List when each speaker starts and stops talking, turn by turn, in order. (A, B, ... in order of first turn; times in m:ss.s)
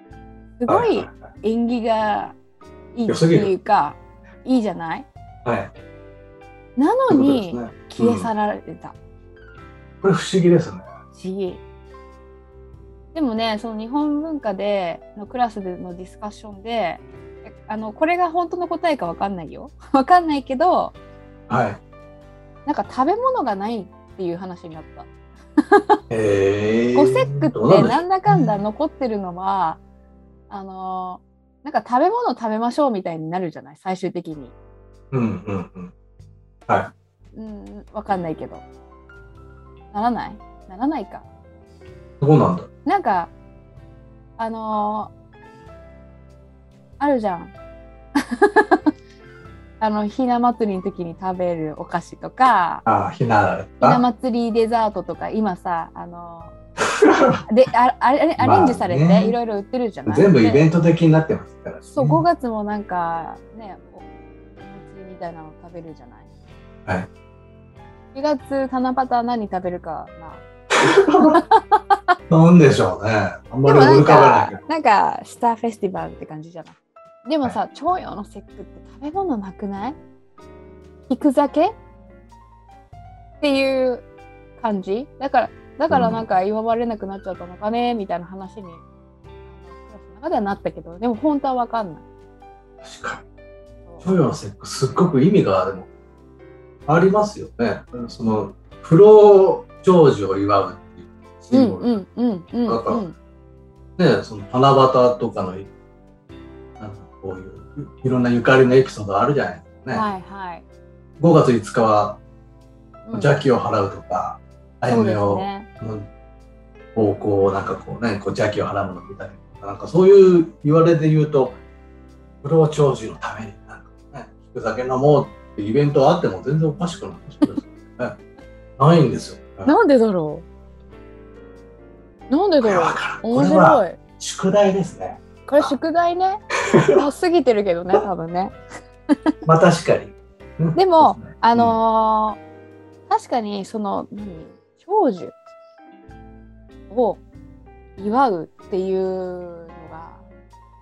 0:00.6-0:02.4 A
0:00.7-0:01.3 B
0:02.9-0:05.1 A
0:03.1-0:03.5 B
0:05.4-0:05.7 B
0:06.8-0:09.0 A
0:07.1-0:08.3 B
0:10.0-0:10.9 B
0:11.1-0:11.6 A
0:13.1-0:21.0 A
0:21.5-0:21.8 B
0:22.7-0:25.1 A
0:25.7-0:26.0 A
0:26.1-0:28.6 B
0:27.0-0:29.8 A
0:30.5-0:34.5 A
0:35.1-0:35.9 B
0:37.4-0:38.6 A
0:39.9-0:41.3 A
0:42.2-0:42.7 B
0:42.8-0:43.3 A
0:44.4-0:45.1 A
0:47.0-0:47.5 A
0:48.3-0:48.9 A
0:49.8-0:52.8 A
0:52.8-0:54.0 B
0:53.8-0:56.6 A
0:57.0-0:57.4 B
0:57.5-1:00.7 A
0:58.4-0:59.4 B
1:00.1-1:02.3 B
1:01.9-1:04.0 A
1:04.6-1:06.3 A
1:08.1-1:10.4 A
1:10.8-1:11.4 B
1:11.2-1:11.8 A
1:12.3-1:14.7 B
1:13.6-1:20.0 A
1:21.1-1:21.8 A
1:23.4-1:24.1 A
1:24.6-1:28.8 A
1:25.9-1:26.2 B
1:29.6-1:32.0 A
1:32.8-1:33.2 B
1:34.0-1:35.9 B
1:36.9-1:42.0 B
1:41.5-1:43.2 A
1:42.6-1:43.0 B
1:44.0-1:45.7 B
1:46.8-1:50.1 B
1:49.9-1:50.6 A
1:51.2-1:52.2 B
1:53.1-1:53.4 A
1:53.1-1:56.1 B
1:54.9-1:55.7 A
1:57.0-2:01.6 B
2:02.4-2:08.2 B
2:08.8-2:09.7 B
2:09.6-2:10.4 A
2:12.3-2:14.0 A
2:12.6-2:15.8 B
2:15.5-2:18.6 A
2:16.7-2:17.0 B
2:19.5-2:21.8 B
2:20.8-2:22.4 A
2:23.1-2:25.4 A
2:26.9-2:27.2 A
2:28.0-2:30.2 A